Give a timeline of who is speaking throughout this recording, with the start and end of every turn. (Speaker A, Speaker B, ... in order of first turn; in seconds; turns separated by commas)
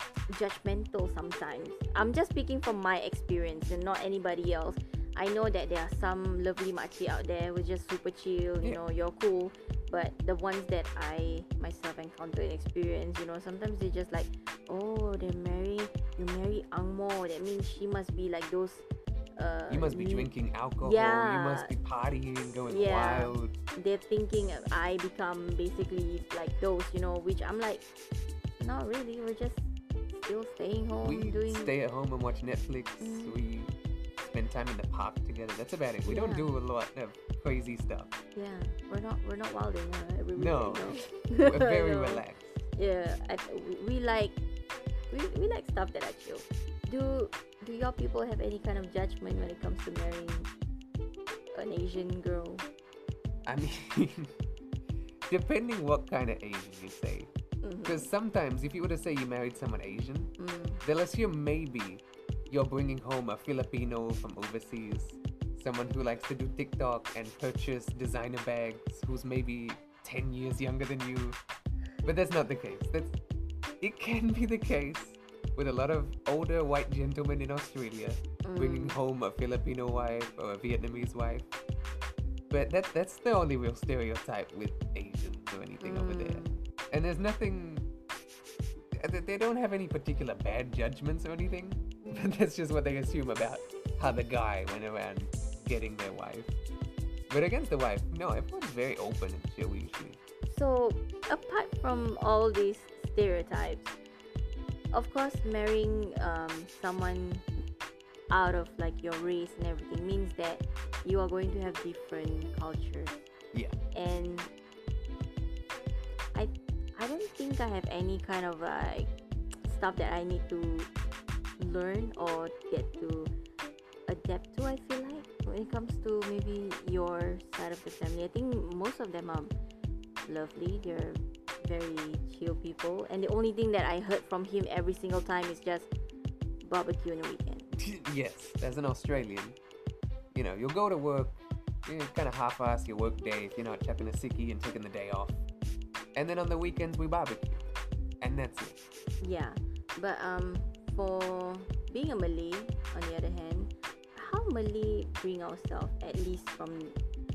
Speaker A: 0.3-21.7, Speaker B: 19.7-23.6, Speaker A: 22.6-27.9, Speaker A: 28.6-31.7, Speaker B: 31.0-38.1, Speaker A: 33.0-33.4, Speaker A: 36.0-36.5, Speaker A: 38.3-42.2, Speaker B: 40.4-42.5, Speaker A: 42.7-44.4, Speaker A: 45.1-50.5, Speaker A: 51.5-52.6, Speaker B: 53.5-54.3, Speaker B: 55.3-57.3, Speaker A: 57.6-58.1, Speaker B: 57.8-60.3, Speaker A: 60.4-60.8, Speaker B: 60.8-71.4, Speaker B: 72.0-73.1, Speaker B: 73.8-81.5, Speaker A: 78.4-79.0, Speaker B: 82.5-87.9, Speaker A: 85.8-86.6, Speaker B: 88.9-96.5, Speaker A: 92.0-92.3, Speaker B: 97.3-100.2, Speaker A: 100.5-103.9, Speaker A: 104.9-107.5, Speaker A: 108.3-113.2, Speaker A: 113.9-114.5, Speaker A: 116.3-119.1, Speaker A: 119.7-120.9, Speaker A: 121.6-123.3, Speaker A: 124.1-129.5, Speaker A: 130.2-135.9, Speaker A: 136.6-137.7, Speaker B: 137.7-139.6, Speaker B: 140.3-145.4, Speaker B: 146.2-147.6, Speaker B: 148.2-148.8, Speaker A: 149.2-157.0